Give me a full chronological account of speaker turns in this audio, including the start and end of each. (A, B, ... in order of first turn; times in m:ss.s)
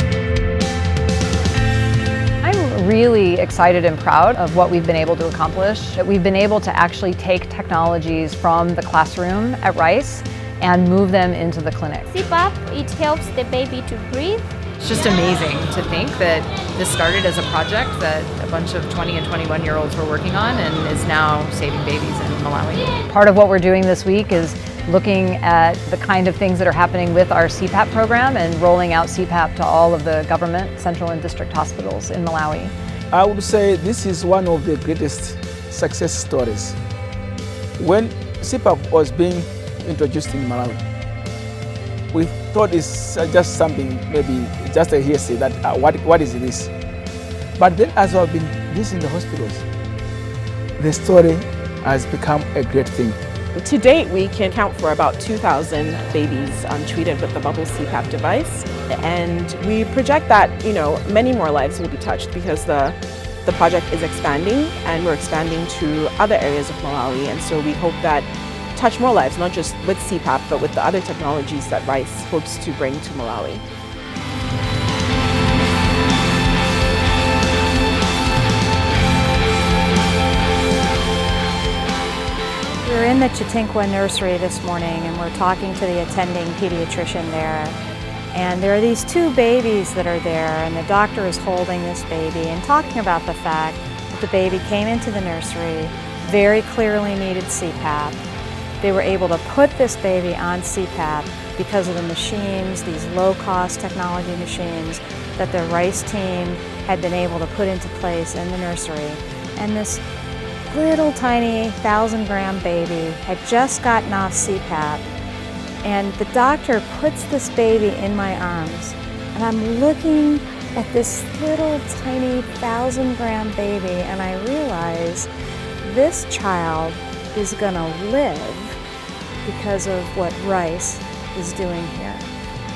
0:02.4-0:12.1 A
0:12.1-0:14.4 B
0:14.8-0:23.0 C
0:23.0-0:32.7 A
0:33.1-0:36.8 D
0:37.8-0:40.8 D
0:42.1-0:46.7 D
0:47.6-0:49.6 D
0:50.8-0:53.2 D
0:53.5-1:13.6 E
1:22.8-1:27.8 F
1:28.3-1:38.2 F
1:38.8-1:50.0 F
1:50.7-1:55.0 F
1:55.8-2:05.3 F
2:05.8-2:08.8 F
2:09.4-2:12.3 F